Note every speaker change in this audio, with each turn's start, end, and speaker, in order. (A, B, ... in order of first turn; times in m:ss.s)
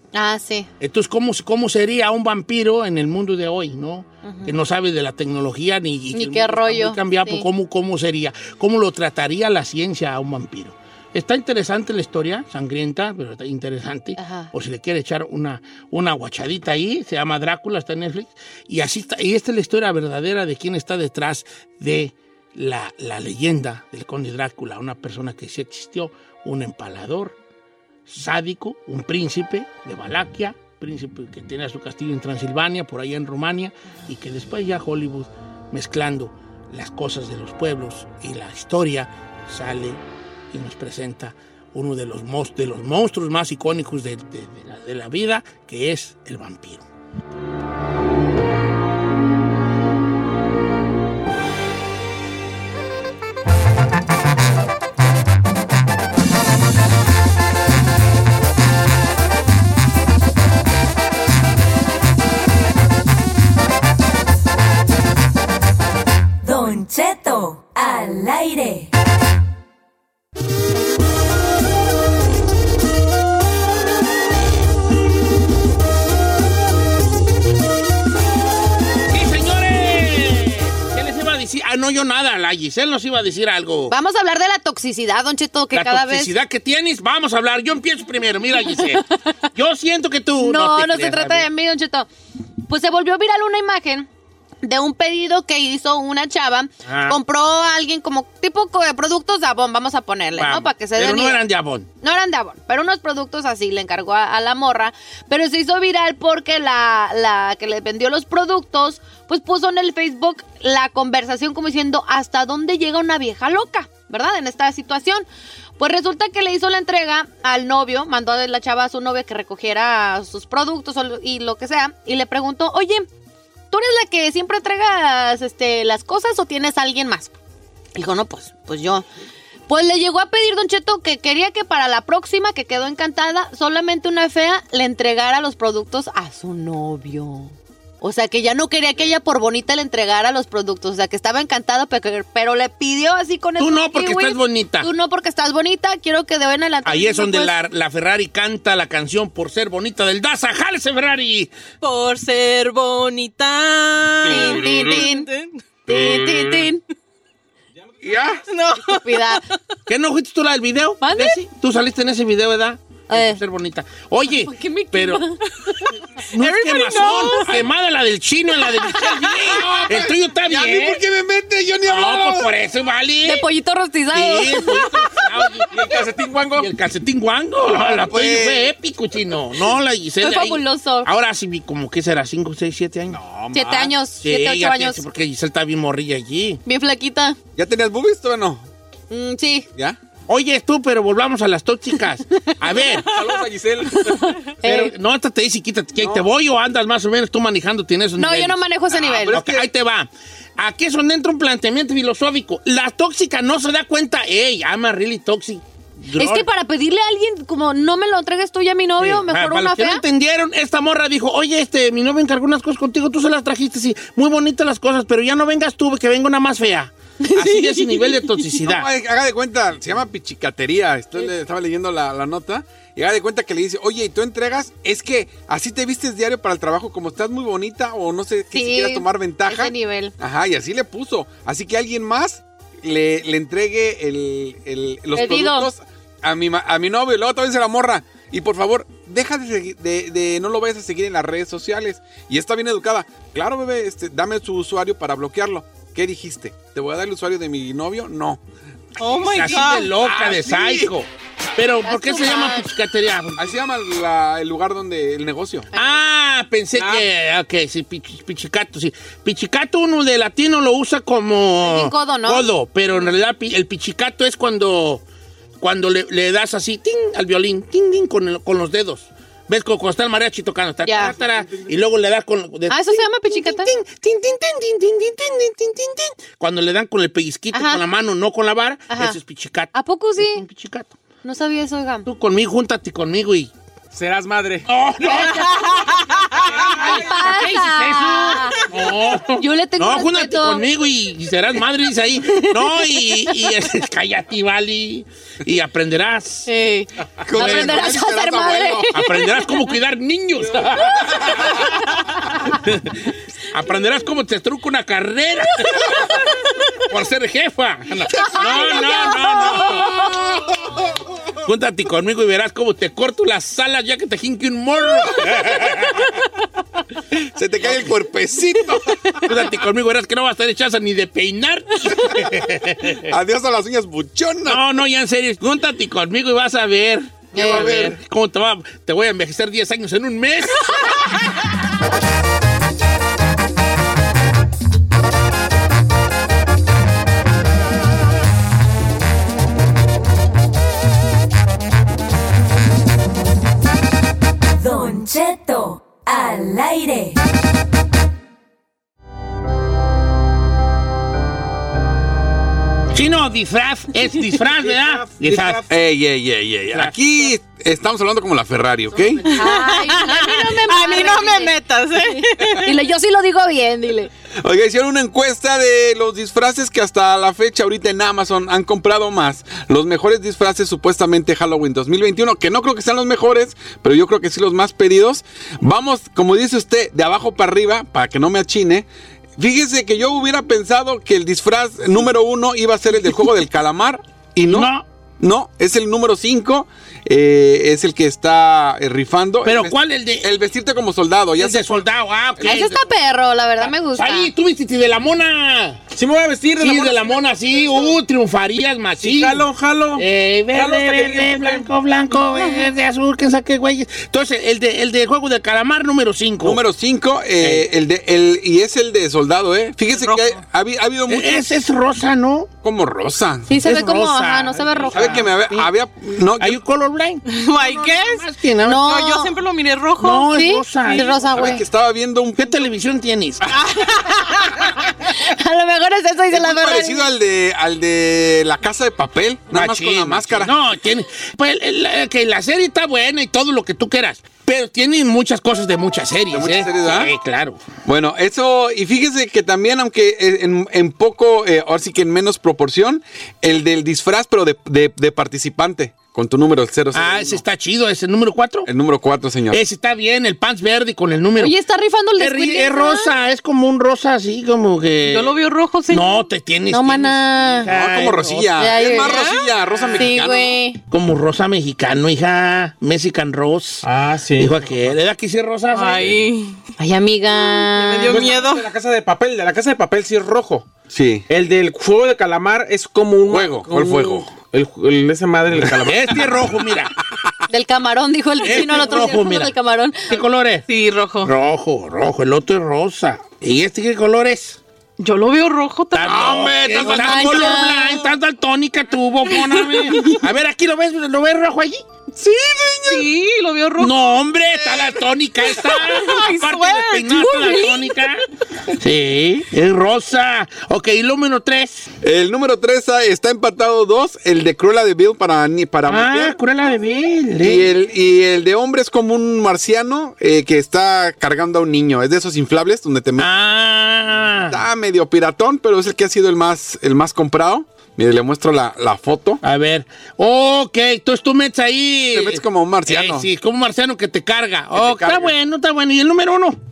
0:00.1-0:00.7 A
0:00.8-0:27.4 B
0:04.2-0:04.5 A
0:06.1-0:07.5 A
0:14.2-0:14.5 A
0:28.1-0:46.8 B
1:06.4-1:08.9 C
1:19.1-1:23.9 B
1:23.9-1:26.3 A
1:25.7-1:31.5 B
1:30.4-1:32.1 A
1:32.7-1:34.1 A
1:34.6-1:41.4 A
1:36.9-1:37.2 B
1:40.4-1:41.9 B
1:42.0-1:55.3 A
1:55.8-2:03.1 A
2:03.7-2:07.4 A
2:08.0-2:09.0 A
2:09.7-2:27.6 A
2:23.6-2:24.9 B
2:26.8-2:31.5 B
2:31.8-2:36.0 D
2:34.2-2:35.3 A
2:35.9-2:36.8 A
2:38.0-2:38.4 E
2:38.5-2:39.4 D
2:38.8-2:39.4 A
2:39.9-2:45.3 B
2:41.0-2:41.4 A
2:43.1-2:43.4 A
2:44.3-2:45.4 A
2:46.3-2:51.0 B
2:46.4-2:47.6 D
2:49.6-2:52.5 E
2:51.8-2:53.5 B
2:53.2-2:55.2 A
2:54.1-2:55.7 B
2:55.7-2:56.7 E
2:56.6-3:03.2 B
2:57.6-2:58.7 E
3:00.2-3:01.1 A
3:03.1-3:04.0 E
3:03.5-3:05.0 A
3:04.2-3:06.6 B
3:06.7-3:07.4 A
3:07.6-3:08.7 E
3:09.1-3:09.7 A
3:10.3-3:13.2 B
3:13.0-3:14.4 F
3:14.1-3:14.9 A
3:14.6-3:18.6 B
3:16.0-3:16.3 E
3:18.2-3:19.4 A
3:18.9-3:19.7 E
3:19.3-3:26.5 B
3:26.2-3:30.0 A
3:29.0-3:38.9 B
3:37.4-3:38.2 D
3:38.6-4:08.4 E
3:48.5-3:50.1 A
3:55.1-3:55.7 A
4:09.0-4:10.0 D
4:09.1-4:13.5 B
4:10.0-4:10.9 E
4:11.8-4:12.7 A
4:13.4-4:15.7 E
4:15.7-4:16.1 A
4:15.7-4:25.0 B
4:21.6-4:22.5 A
4:25.6-4:41.0 B
4:30.8-4:31.2 A
4:32.7-4:33.7 A
4:37.5-4:37.8 A
4:38.9-4:39.2 A
4:39.7-4:40.4 A
4:41.2-4:42.1 A
4:42.1-4:43.5 B
4:43.9-4:44.7 F
4:44.7-4:56.5 B
4:45.1-4:45.4 A
4:46.7-4:48.7 A
4:49.2-4:50.7 A
4:52.6-4:53.2 A
4:56.5-4:59.6 A
4:57.2-4:58.9 E
4:57.3-4:58.0 B
4:58.9-5:01.6 B
5:02.5-5:03.0 B
5:03.5-5:06.0 B
5:06.9-5:10.1 B
5:08.3-5:09.8 A
5:11.4-5:16.1 B
5:17.1-5:18.9 E
5:17.6-5:17.9 B
5:19.2-5:23.0 B
5:23.0-5:24.6 E
5:24.5-5:31.0 B
5:27.3-5:27.9 A
5:27.4-5:28.0 E
5:44.6-5:47.2 C
5:52.9-5:55.6 B
5:54.5-5:55.6 F
5:55.6-5:59.2 E
5:56.7-5:57.3 B
5:58.9-5:59.2 B
5:59.3-6:02.7 D
5:59.3-6:04.1 A
6:04.4-6:18.9 E
6:19.4-6:31.8 E
6:24.4-6:24.9 B
6:29.4-6:30.3 B
6:31.4-6:32.9 B
6:32.4-6:34.3 A
6:33.6-6:35.8 B
6:35.9-6:37.9 F
6:36.6-6:46.6 B
6:39.0-6:41.7 F
6:46.4-6:51.5 E
6:47.4-6:47.7 B
6:50.0-6:50.2 D
6:51.1-6:52.5 B
6:52.6-6:53.5 E
6:53.5-6:55.3 A
6:53.5-6:55.7 B
6:54.9-6:56.6 E
6:56.4-6:58.9 B
6:57.3-7:01.2 D
6:58.7-6:59.4 A
7:00.0-7:01.5 B
7:00.1-7:01.6 A
7:01.3-7:02.7 E
7:02.4-7:03.4 B
7:03.6-7:04.2 D
7:05.1-7:07.1 A
7:06.3-7:10.5 E
7:09.5-7:17.6 B
7:16.3-7:17.1 E
7:17.9-7:27.4 E
7:26.9-7:28.7 B
7:28.7-7:29.6 E
7:29.5-7:31.5 B
7:31.4-7:33.1 A
7:32.2-7:35.4 B
7:35.1-7:36.3 D
7:35.9-7:38.7 B
7:36.7-7:37.7 A
7:37.7-7:40.6 E
7:38.6-7:39.2 A
7:39.0-7:40.1 D
7:40.0-7:40.8 A
7:40.9-7:46.2 B
7:43.8-7:44.9 F
7:45.7-7:46.6 D
7:46.8-7:48.4 A
7:47.7-7:48.7 D
7:48.1-7:50.7 F
7:50.9-7:51.3 E
7:51.3-7:56.3 F
7:53.3-7:54.3 E
7:55.8-7:56.9 B
7:57.5-8:00.2 A
7:58.4-7:59.5 B
8:00.1-8:00.7 B
8:00.7-8:01.3 D
8:01.2-8:04.6 B
8:05.0-8:06.5 D
8:05.9-8:11.8 B
8:06.1-8:07.6 E
8:06.8-8:08.0 A
8:09.6-8:10.2 D
8:12.2-8:14.0 D
8:12.2-8:13.0 E
8:13.8-8:21.9 B
8:14.5-8:18.1 D
8:22.0-8:26.4 E
8:25.9-8:27.7 B
8:27.4-8:33.3 E
8:33.2-8:34.6 B
8:34.5-8:39.4 E
8:39.4-8:46.6 B
8:42.1-8:43.3 E
8:44.7-8:45.3 E